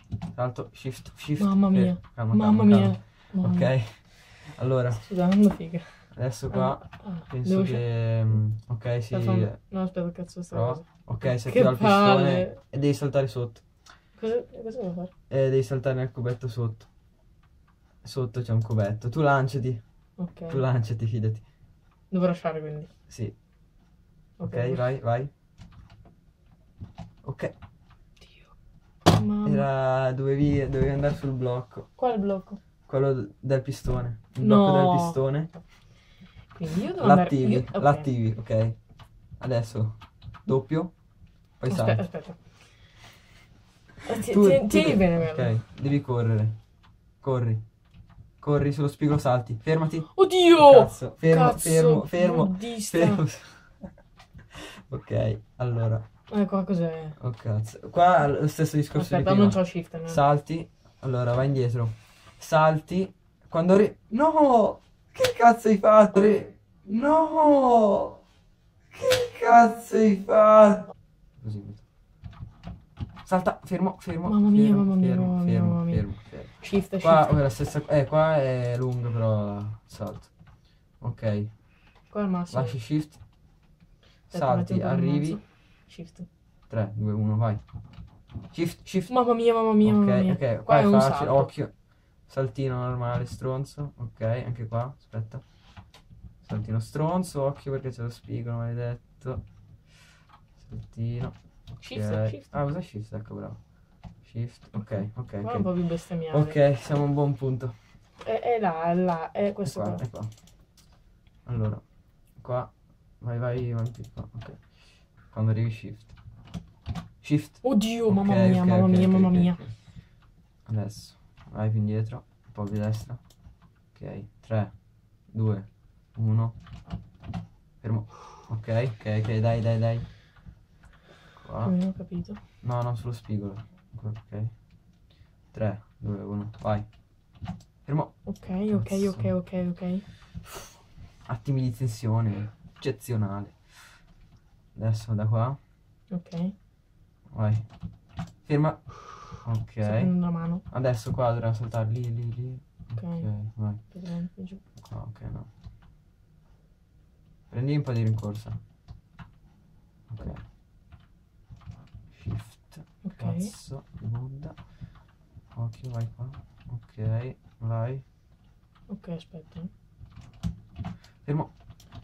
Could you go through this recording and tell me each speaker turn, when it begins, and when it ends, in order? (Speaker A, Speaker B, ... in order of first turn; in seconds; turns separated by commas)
Speaker A: 0.3-5.0, Speaker B: 1.4-3.7, Speaker B: 5.0-6.0, Speaker A: 6.1-9.6, Speaker B: 6.5-7.8, Speaker B: 9.1-12.6, Speaker A: 10.5-13.6, Speaker B: 14.2-15.1, Speaker A: 15.3-16.9, Speaker A: 18.0-19.8, Speaker B: 20.2-20.6, Speaker A: 20.5-21.4, Speaker B: 22.1-22.9, Speaker A: 23.1-23.3, Speaker B: 24.4-24.8, Speaker A: 24.4-25.3, Speaker A: 27.2-27.5, Speaker B: 29.1-29.6, Speaker A: 29.4-31.9, Speaker B: 32.0-32.6, Speaker A: 32.9-35.5, Speaker B: 34.4-35.2, Speaker B: 36.5-38.1, Speaker A: 37.0-38.8, Speaker A: 39.4-41.0, Speaker A: 41.6-42.0, Speaker B: 41.7-42.4, Speaker B: 44.0-45.5, Speaker A: 44.1-46.6, Speaker A: 47.2-47.6, Speaker A: 48.4-53.7, Speaker B: 50.1-53.2, Speaker A: 54.5-56.0, Speaker B: 56.3-57.2, Speaker A: 57.2-68.2, Speaker B: 58.9-60.2, Speaker A: 68.9-71.8, Speaker A: 73.2-80.3, Speaker B: 74.2-77.3, Speaker A: 81.0-81.5, Speaker B: 82.1-82.8, Speaker A: 82.5-83.2, Speaker B: 84.3-86.2, Speaker A: 84.3-85.4, Speaker A: 86.7-87.6, Speaker A: 88.5-89.3, Speaker B: 89.1-91.5, Speaker A: 89.8-91.7, Speaker A: 92.2-95.4, Speaker A: 96.4-99.4, Speaker A: 100.6-101.3, Speaker B: 101.8-102.5, Speaker A: 101.9-103.6, Speaker A: 104.2-105.7, Speaker B: 104.8-106.6, Speaker A: 106.3-107.7, Speaker B: 108.2-110.0, Speaker A: 109.6-110.3, Speaker A: 111.5-111.8, Speaker A: 112.4-114.7, Speaker A: 115.2-116.1, Speaker A: 117.2-119.7, Speaker B: 117.6-119.6, Speaker A: 120.7-123.2, Speaker A: 123.9-124.8, Speaker A: 125.3-126.5, Speaker A: 127.8-130.1, Speaker A: 131.4-131.8, Speaker B: 131.6-132.4, Speaker A: 132.6-134.5, Speaker A: 135.5-136.9, Speaker A: 137.8-139.3, Speaker B: 138.2-140.1, Speaker A: 141.3-143.8, Speaker A: 144.7-145.6, Speaker B: 146.1-146.5, Speaker A: 147.3-147.6, Speaker A: 148.4-153.8, Speaker B: 149.8-150.6, Speaker B: 153.0-153.3, Speaker B: 153.8-154.6, Speaker A: 154.8-155.5, Speaker A: 157.5-158.6, Speaker A: 160.1-160.4, Speaker A: 162.1-164.6, Speaker B: 163.0-163.5, Speaker A: 165.5-168.0, Speaker B: 168.9-169.7, Speaker A: 171.2-171.5